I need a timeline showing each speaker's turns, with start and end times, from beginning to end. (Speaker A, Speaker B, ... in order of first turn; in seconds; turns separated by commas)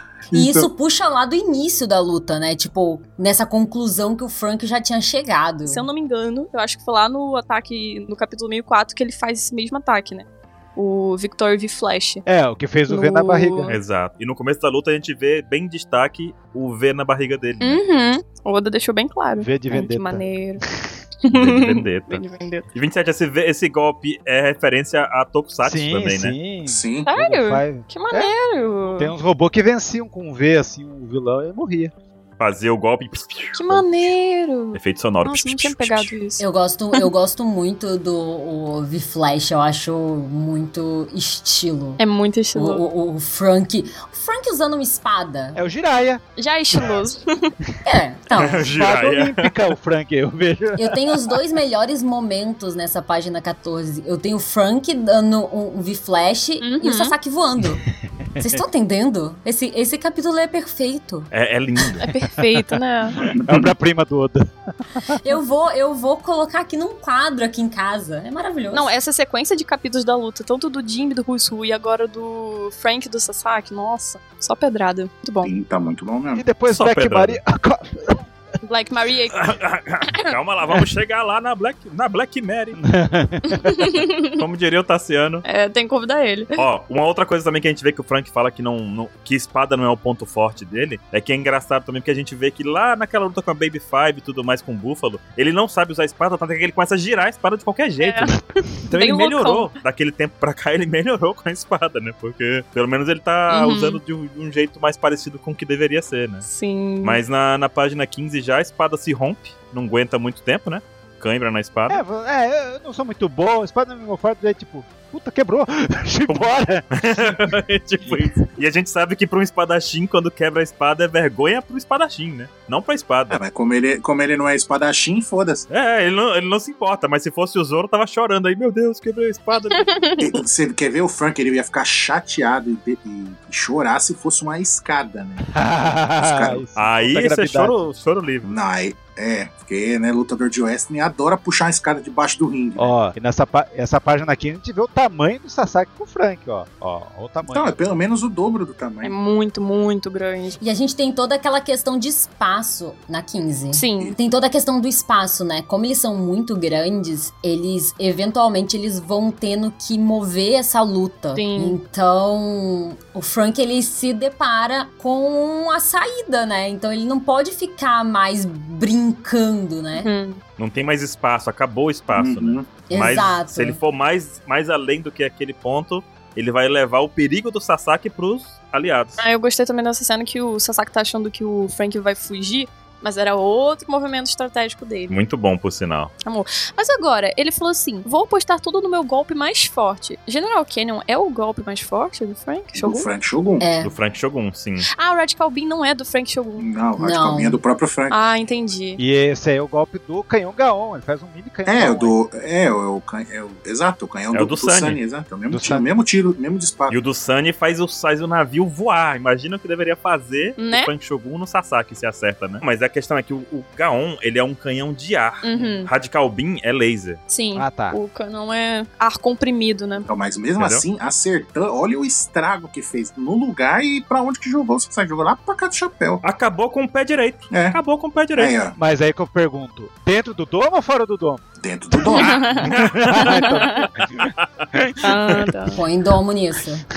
Speaker A: 0.3-5.9, Speaker B: 0.3-0.7, Speaker C: 5.7-12.2, Speaker D: 12.3-13.8, Speaker C: 12.9-13.7, Speaker E: 13.7-17.8, Speaker C: 17.6-20.6, Speaker D: 19.4-20.3, Speaker C: 21.2-22.7, Speaker E: 21.3-26.4, Speaker D: 25.6-28.3, Speaker B: 26.6-27.1, Speaker C: 27.1-29.1, Speaker D: 29.0-31.9, Speaker E: 32.4-34.1, Speaker C: 33.5-37.1, Speaker E: 34.7-36.1, Speaker A: 36.4-42.0, Speaker C: 42.0-42.8, Speaker A: 42.5-45.6, Speaker D: 45.5-46.2, Speaker C: 46.4-47.5, Speaker A: 47.9-48.7, Speaker E: 48.4-49.5, Speaker D: 48.6-51.2, Speaker A: 50.8-57.8, Speaker C: 56.6-57.2, Speaker D: 58.4-58.6, Speaker A: 58.4-61.3, Speaker E: 61.3-62.1, Speaker C: 62.0-63.2, Speaker D: 63.2-65.2, Speaker B: 63.3-63.7, Speaker A: 65.2-68.9, Speaker C: 68.7-75.5, Speaker B: 75.4-76.5, Speaker D: 76.3-78.2, Speaker E: 76.7-77.4, Speaker C: 78.7-79.5, Speaker E: 79.3-82.8, Speaker D: 82.8-83.8, Speaker C: 83.5-84.3, Speaker E: 84.3-85.4, Speaker C: 85.5-86.6, Speaker E: 86.6-98.3, Speaker C: 98.0-99.7, Speaker E: 98.9-106.5, Speaker C: 103.5-104.0, Speaker C: 106.5-107.2, Speaker E: 107.0-112.0, Speaker D: 111.9-117.4, Speaker E: 116.3-123.4, Speaker B: 123.3-125.7, Speaker E: 125.7-129.9, Speaker C: 129.8-130.3, Speaker B: 130.2-135.5, Speaker D: 135.5-137.9, Speaker B: 136.2-136.7, Speaker E: 136.8-138.5, Speaker B: 138.4-142.9, Speaker D: 142.8-147.8, Speaker B: 147.5-149.1, Speaker C: 149.0-150.6, Speaker A: 150.6-170.1, Speaker C: 153.7-154.2, Speaker C: 161.3-161.8, Speaker C: 169.9-170.4, Speaker E: 170.6-179.2, Speaker B: 172.1-172.8, Speaker A: 172.9-173.8, Speaker C: 179.2-185.1, Speaker E: 185.1-186.1, Speaker C: 186.2-193.1, Speaker B: 192.7-193.7, Speaker A: 193.6-193.9, Speaker E: 193.8-194.9, Speaker C: 194.9-196.7, Speaker B: 196.6-198.2, Speaker A: 197.0-197.6, Speaker C: 198.1-199.0, Speaker D: 199.0-202.2, Speaker B: 201.7-207.0, Speaker E: 204.3-205.0, Speaker D: 205.5-205.8, Speaker E: 206.9-217.2, Speaker C: 210.6-210.9, Speaker C: 215.4-215.9, Speaker C: 217.3-220.1, Speaker D: 217.6-218.0, Speaker B: 220.0-226.2, Speaker E: 220.6-220.8, Speaker E: 226.2-228.5, Speaker B: 227.5-227.8, Speaker B: 228.3-228.8, Speaker D: 228.8-235.5, Speaker B: 231.6-232.6, Speaker C: 232.1-233.9, Speaker E: 232.7-233.9, Speaker E: 234.4-234.7, Speaker C: 235.0-235.8, Speaker A: 235.7-236.8